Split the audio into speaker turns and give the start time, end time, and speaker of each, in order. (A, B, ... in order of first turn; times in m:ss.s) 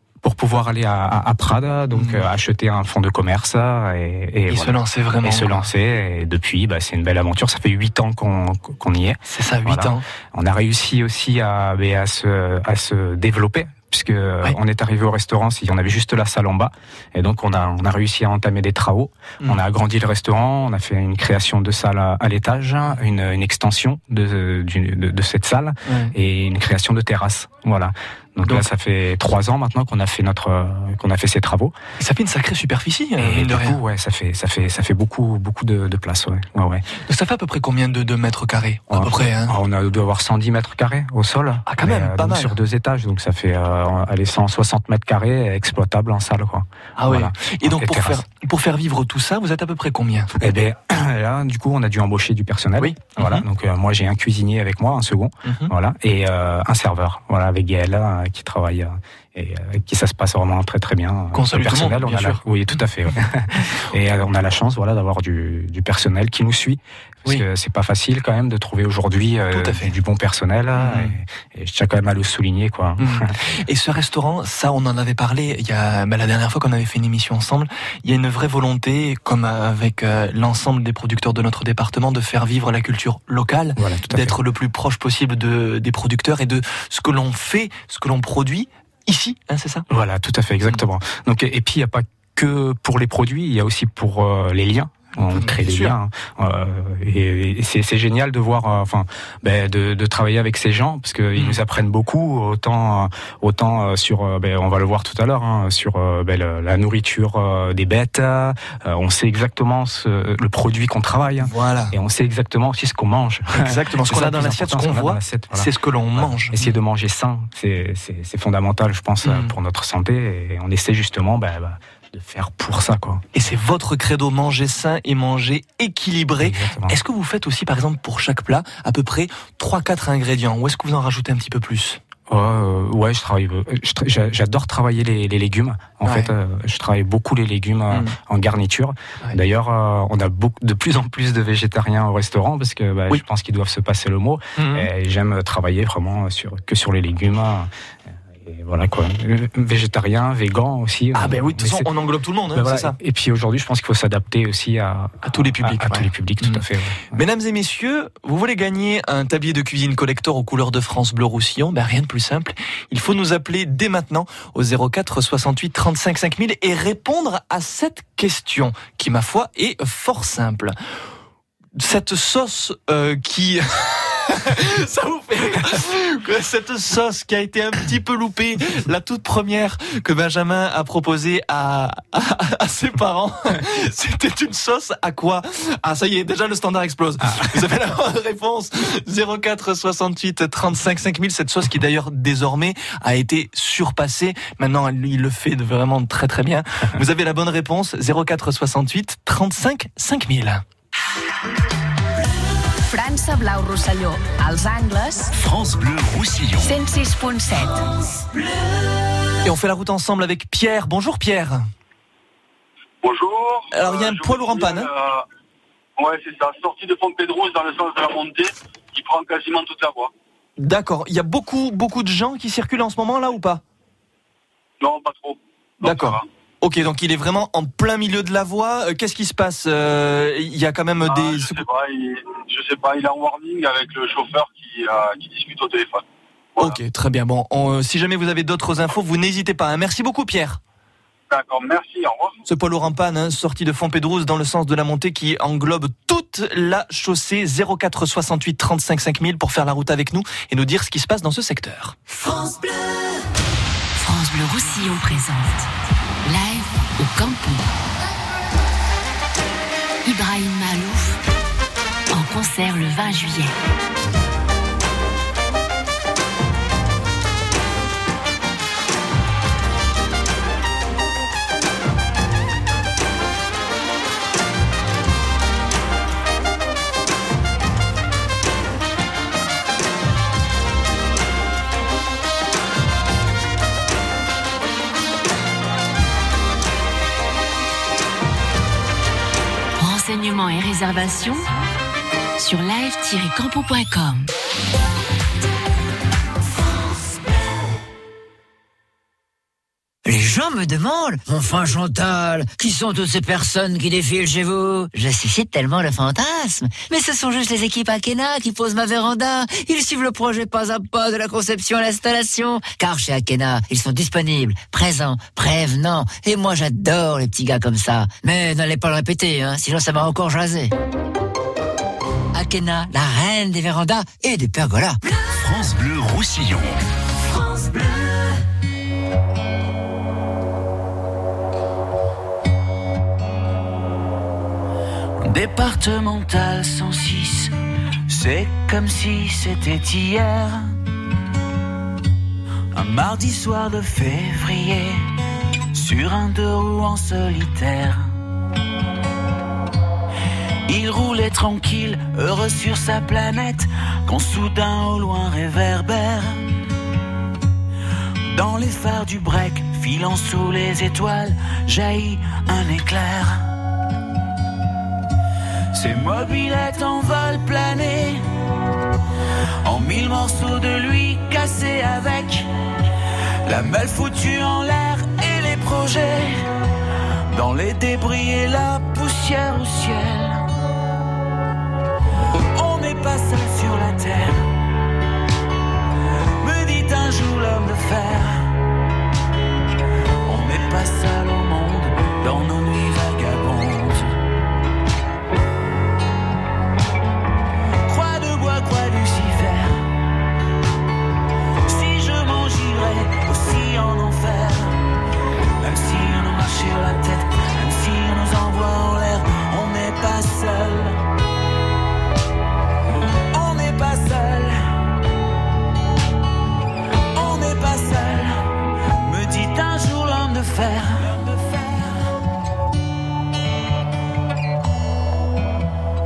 0:00.2-0:31.8 A
0:01.9-0:02.3 B
0:04.5-0:05.7 B
0:09.3-0:10.0 B
0:25.9-0:26.2 B
0:32.0-0:33.8 B
0:33.2-0:36.8 A
0:37.0-0:39.6 B
0:38.9-0:48.2 A
0:41.7-0:42.6 B
0:47.0-0:50.4 B
0:50.4-1:13.3 A
0:52.8-0:53.4 B
0:55.4-0:55.7 B
1:01.3-1:02.4 B
1:09.5-1:09.9 B
1:10.8-1:11.2 B
1:13.0-1:29.9 B
1:23.8-1:24.4 A
1:29.9-2:03.2 A
1:35.3-1:36.0 B
1:41.4-1:41.6 B
1:51.4-1:51.9 B
1:53.6-1:56.7 B
1:59.2-1:59.5 B
2:03.3-2:12.0 B
2:06.4-2:07.0 A
2:12.3-2:27.7 A
2:16.0-2:16.3 B
2:17.9-2:18.2 B
2:24.6-2:24.9 B
2:28.3-2:31.9 A
2:31.2-2:33.0 B
2:32.5-2:37.2 A
2:35.2-2:50.8 B
2:51.8-3:20.6 B
3:07.2-3:07.6 A
3:22.9-3:25.3 C
3:25.4-3:26.8 D
3:26.6-3:27.9 C
3:29.4-3:31.7 B
3:33.0-3:35.2 E
3:33.7-3:34.9 B
3:36.0-3:40.1 E
3:40.6-3:43.6 B
3:44.8-3:46.2 E
3:45.8-3:51.6 B
3:51.0-3:56.0 E
3:56.6-4:00.6 B
4:01.3-4:02.4 E
4:02.5-4:12.0 B
4:14.0-4:15.7 F
4:16.2-4:17.6 F
4:20.0-4:21.2 F
4:22.1-4:23.6 F
4:49.8-4:51.5 F
4:52.4-4:54.3 F
5:00.0-5:20.7 G
5:22.3-5:25.0 G
5:25.3-5:26.8 D
5:35.2-5:37.6 H
5:38.1-5:40.8 H
5:42.7-5:45.1 H
5:45.7-5:48.2 H
5:50.7-5:56.4 H
5:58.3-6:03.5 H
6:05.7-6:08.2 H
6:09.6-6:12.5 H
6:13.4-6:16.5 H
6:17.3-6:20.5 H
6:22.5-6:24.5 H
6:26.4-6:28.6 H
6:30.2-6:34.2 H
6:37.9-6:40.0 H
6:41.7-6:44.8 H
6:45.6-6:51.0 H
6:53.3-6:54.6 H
6:57.1-6:58.5 H
6:59.0-7:02.1 H